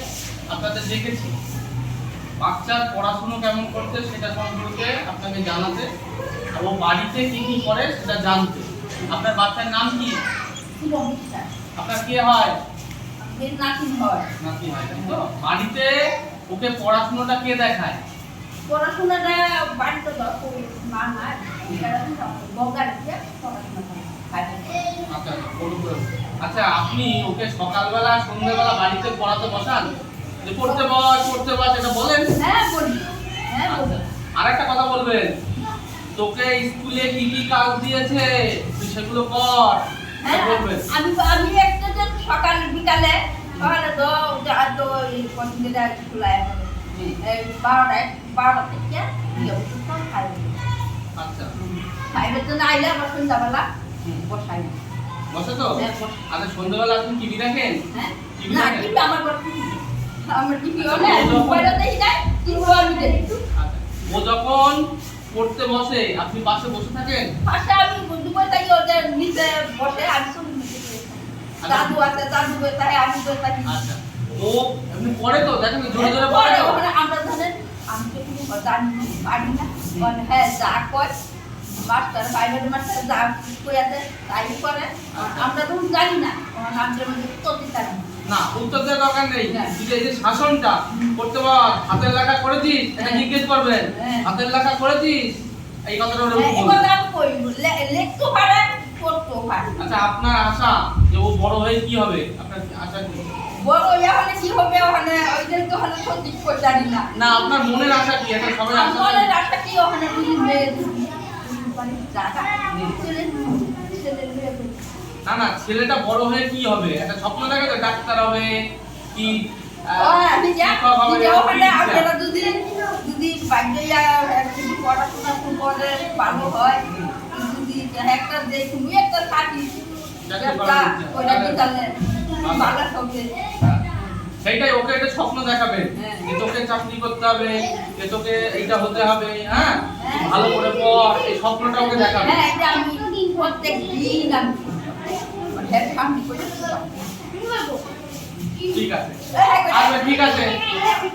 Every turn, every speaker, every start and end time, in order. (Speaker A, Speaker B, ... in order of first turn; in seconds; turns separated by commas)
Speaker A: 0.5-1.3, Speaker A: 2.4-5.8, Speaker A: 6.5-10.2, Speaker B: 10.8-11.5, Speaker A: 11.8-12.6, Speaker B: 13.2-14.3, Speaker A: 14.4-15.9, Speaker A: 16.5-18.0, Speaker B: 18.7-24.9, Speaker A: 25.1-29.9, Speaker A: 30.4-32.3, Speaker B: 32.4-34.0, Speaker A: 33.7-35.3, Speaker A: 36.1-40.8, Speaker B: 40.2-50.6, Speaker A: 46.9-47.2, Speaker A: 51.2-51.5, Speaker B: 51.5-53.6, Speaker B: 54.3-54.8, Speaker A: 55.3-57.8, Speaker B: 55.8-56.2, Speaker B: 57.9-63.4, Speaker A: 58.4-58.9, Speaker A: 60.8-61.8, Speaker A: 63.5-64.8, Speaker A: 65.3-67.3, Speaker B: 67.4-73.8, Speaker A: 71.6-72.0, Speaker A: 73.7-76.8, Speaker B: 75.9-81.1, Speaker B: 81.7-88.1, Speaker A: 85.1-85.5, Speaker A: 88.3-95.2, Speaker B: 89.5-89.8, Speaker B: 90.9-91.1, Speaker B: 93.0-93.3, Speaker B: 93.9-94.3, Speaker A: 95.9-96.8, Speaker B: 96.3-100.0, Speaker A: 99.8-103.3, Speaker B: 103.6-107.1, Speaker A: 107.1-109.3, Speaker B: 108.7-114.9, Speaker A: 112.7-113.0, Speaker A: 115.2-118.5, Speaker A: 119.1-122.0, Speaker B: 120.0-126.8, Speaker A: 126.3-127.1, Speaker B: 127.3-133.2, Speaker A: 130.3-131.6, Speaker A: 132.4-132.7, Speaker B: 133.9-134.1, Speaker A: 134.4-142.4, Speaker B: 135.9-136.3, Speaker B: 140.0-140.6, Speaker B: 142.1-144.9, Speaker B: 145.5-147.3, Speaker A: 148.6-150.5, Speaker B: 149.3-150.7